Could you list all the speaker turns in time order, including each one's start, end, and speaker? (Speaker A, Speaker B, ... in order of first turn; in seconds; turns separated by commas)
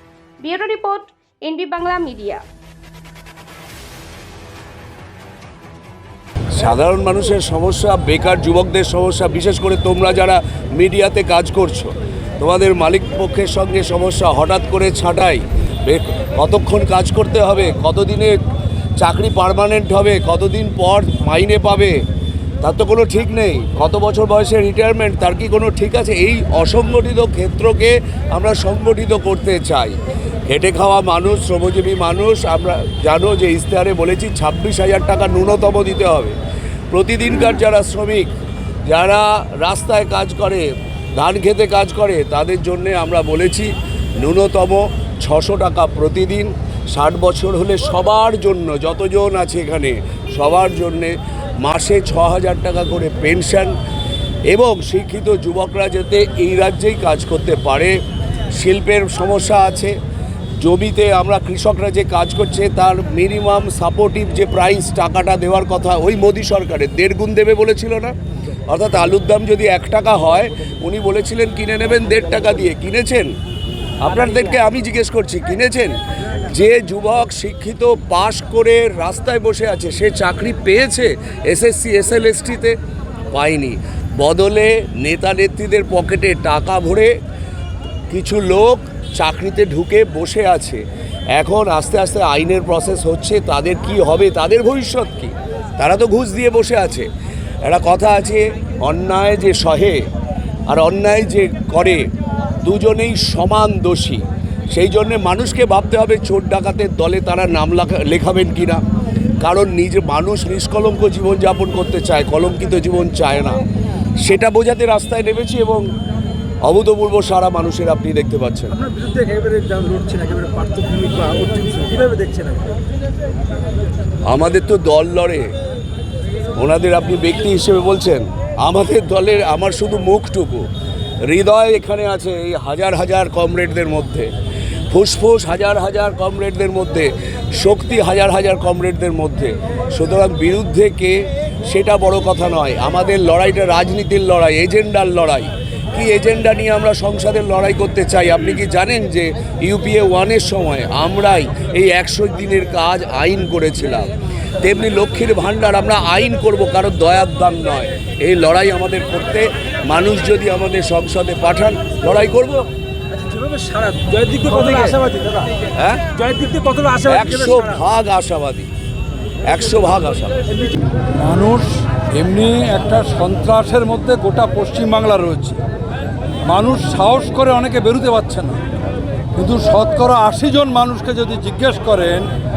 Speaker A: 0.4-2.4, Speaker B: 6.5-18.4, Speaker B: 19.0-22.0, Speaker B: 22.6-29.9, Speaker B: 30.5-36.4, Speaker B: 36.9-38.3, Speaker B: 38.9-53.8, Speaker B: 54.5-58.0, Speaker B: 58.6-60.0, Speaker B: 60.6-68.2, Speaker B: 68.7-73.4, Speaker B: 74.0-82.8, Speaker B: 83.3-87.1, Speaker B: 88.1-90.8, Speaker B: 91.3-97.1, Speaker B: 97.6-100.0, Speaker B: 100.7-102.1, Speaker B: 102.6-108.8, Speaker B: 109.4-113.6, Speaker B: 114.2-115.9, Speaker B: 116.6-118.7, Speaker C: 118.7-122.8, Speaker B: 124.3-125.5, Speaker B: 126.5-130.7, Speaker B: 131.2-134.3, Speaker B: 134.9-154.1, Speaker B: 154.6-162.7, Speaker C: 163.1-165.5, Speaker B: 165.8-166.1, Speaker C: 166.1-167.8, Speaker B: 167.1-168.7, Speaker B: 169.4-170.4, Speaker D: 171.2-175.6, Speaker D: 176.5-178.6, Speaker D: 179.4-182.3